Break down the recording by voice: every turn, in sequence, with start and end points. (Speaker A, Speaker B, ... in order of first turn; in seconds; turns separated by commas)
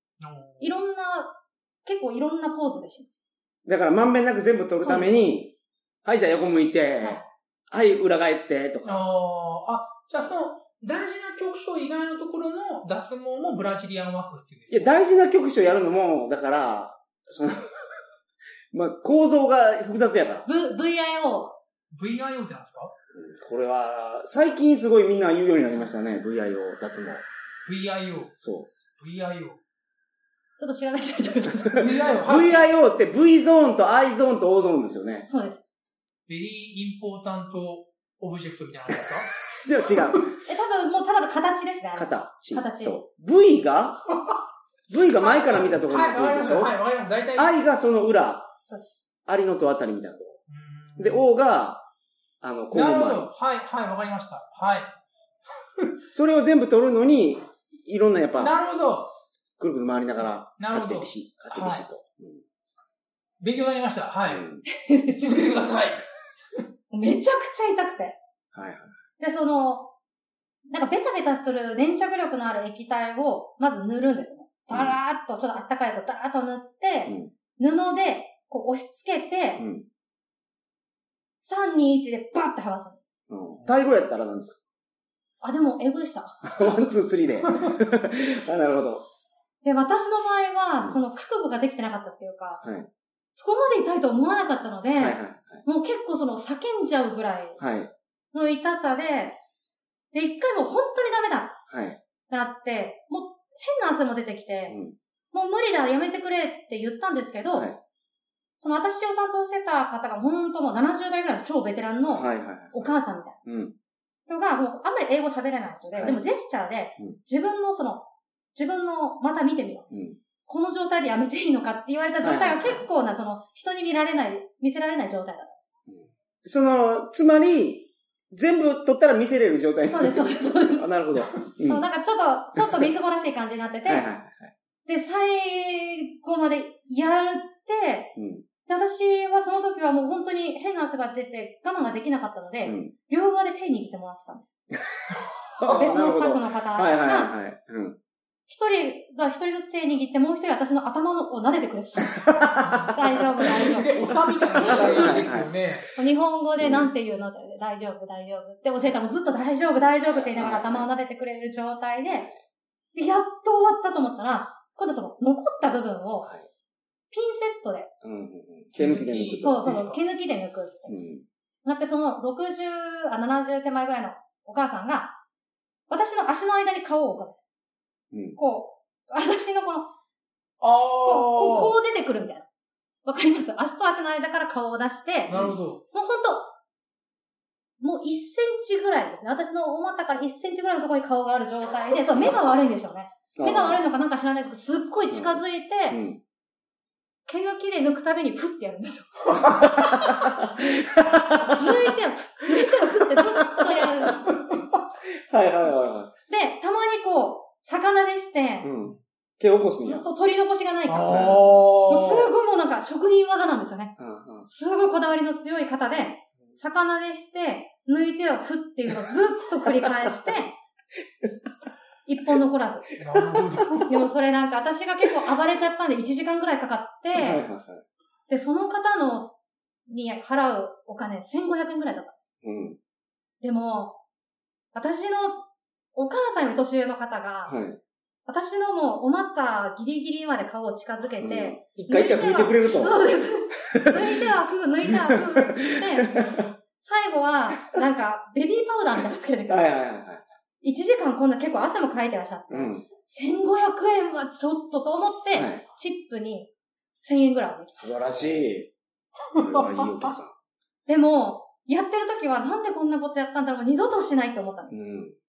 Speaker A: 0.2-0.8, Speaker B: 0.6-3.1, Speaker C: 3.7-5.5, Speaker B: 4.8-5.3, Speaker C: 6.0-7.2, Speaker B: 7.0-7.3, Speaker C: 7.7-9.0, Speaker A: 8.8-15.0, Speaker C: 14.7-18.0, Speaker C: 18.7-20.5, Speaker B: 20.5-21.6, Speaker A: 21.9-22.9, Speaker C: 23.1-27.2, Speaker A: 27.6-28.3, Speaker C: 28.4-28.7, Speaker A: 29.0-29.6, Speaker B: 30.6-31.9, Speaker C: 31.8-35.3, Speaker A: 31.8-32.7, Speaker B: 35.3-35.6, Speaker A: 36.3-39.3, Speaker C: 39.5-40.3, Speaker B: 40.5-43.0, Speaker C: 42.0-44.0, Speaker C: 44.9-46.7, Speaker A: 45.5-47.6, Speaker C: 47.4-48.5, Speaker B: 48.7-49.0, Speaker C: 49.3-50.4, Speaker A: 50.5-51.2, Speaker C: 51.0-51.9, Speaker C: 52.4-53.3, Speaker A: 52.7-55.0, Speaker A: 55.6-56.0, Speaker C: 56.1-58.5, Speaker A: 58.4-59.1, Speaker C: 59.6-62.4, Speaker A: 60.6-61.9, Speaker A: 63.4-64.5, Speaker C: 64.3-64.6, Speaker B: 64.7-65.3, Speaker A: 65.1-66.0, Speaker B: 66.9-68.2, Speaker C: 68.5-69.0, Speaker B: 69.2-69.9, Speaker B: 70.7-79.6, Speaker C: 74.7-75.0, Speaker C: 77.1-77.3, Speaker C: 79.6-79.8, Speaker B: 81.4-83.1, Speaker C: 83.3-84.6, Speaker B: 85.4-86.8, Speaker C: 86.4-89.1, Speaker B: 89.6-92.6, Speaker C: 92.6-92.9, Speaker B: 93.3-97.6, Speaker C: 95.0-95.6, Speaker C: 97.6-97.9, Speaker B: 98.3-99.4, Speaker B: 100.1-101.6, Speaker C: 101.7-102.0, Speaker B: 102.3-104.8, Speaker C: 104.7-105.0, Speaker B: 105.3-107.7, Speaker C: 107.5-107.8, Speaker B: 108.6-113.4, Speaker C: 112.1-112.9, Speaker C: 113.5-113.7, Speaker B: 114.3-119.9, Speaker C: 116.0-116.2, Speaker C: 119.9-120.2, Speaker B: 120.5-125.7, Speaker C: 122.2-122.8, Speaker C: 125.9-131.8, Speaker B: 129.9-130.9, Speaker B: 131.6-134.1, Speaker C: 132.6-132.9, Speaker C: 133.8-134.5, Speaker B: 134.9-144.6, Speaker C: 138.2-138.4, Speaker C: 142.7-142.9, Speaker C: 145.5-148.0, Speaker B: 145.7-147.3, Speaker B: 148.5-153.9, Speaker C: 152.2-152.9, Speaker A: 152.7-155.9, Speaker B: 154.6-155.2, Speaker C: 154.6-155.5, Speaker B: 155.9-162.3, Speaker C: 156.6-156.9, Speaker C: 160.1-160.9, Speaker B: 162.9-166.3, Speaker C: 166.2-166.5, Speaker B: 167.1-167.9, Speaker C: 168.0-169.7, Speaker A: 168.7-170.0, Speaker B: 169.4-170.9, Speaker C: 170.9-171.2, Speaker B: 171.7-175.2, Speaker B: 175.9-177.4, Speaker C: 178.1-178.4, Speaker B: 178.4-179.9, Speaker A: 180.6-181.8, Speaker B: 181.0-182.5, Speaker B: 183.1-185.4, Speaker A: 185.3-185.8, Speaker C: 185.3-185.6, Speaker B: 185.9-186.5, Speaker B: 187.8-196.0, Speaker C: 193.4-193.8, Speaker C: 195.1-195.4, Speaker C: 195.9-196.2, Speaker B: 197.3-199.8, Speaker C: 199.4-201.8, Speaker B: 201.4-204.4, Speaker C: 203.2-204.1, Speaker C: 205.3-206.1, Speaker B: 206.3-208.7, Speaker C: 208.6-210.1, Speaker B: 209.8-211.2, Speaker A: 210.9-212.3, Speaker C: 211.1-211.7, Speaker B: 211.9-213.9, Speaker C: 214.0-214.5, Speaker B: 214.5-220.5, Speaker B: 222.1-222.9, Speaker A: 223.0-224.1, Speaker B: 223.8-227.4, Speaker C: 227.1-227.8, Speaker B: 228.3-229.3, Speaker B: 229.9-232.2, Speaker C: 232.4-232.8, Speaker B: 233.4-234.0, Speaker B: 234.7-237.6, Speaker C: 237.5-237.8, Speaker B: 238.3-249.7, Speaker C: 241.2-243.1, Speaker C: 243.6-244.2, Speaker C: 244.9-246.5, Speaker C: 249.0-250.2, Speaker B: 250.6-256.5, Speaker C: 252.5-252.9, Speaker C: 255.3-255.6, Speaker B: 257.0-257.9, Speaker C: 257.8-258.7, Speaker A: 259.3-260.1, Speaker C: 259.3-260.3, Speaker B: 260.9-264.8, Speaker C: 264.7-265.2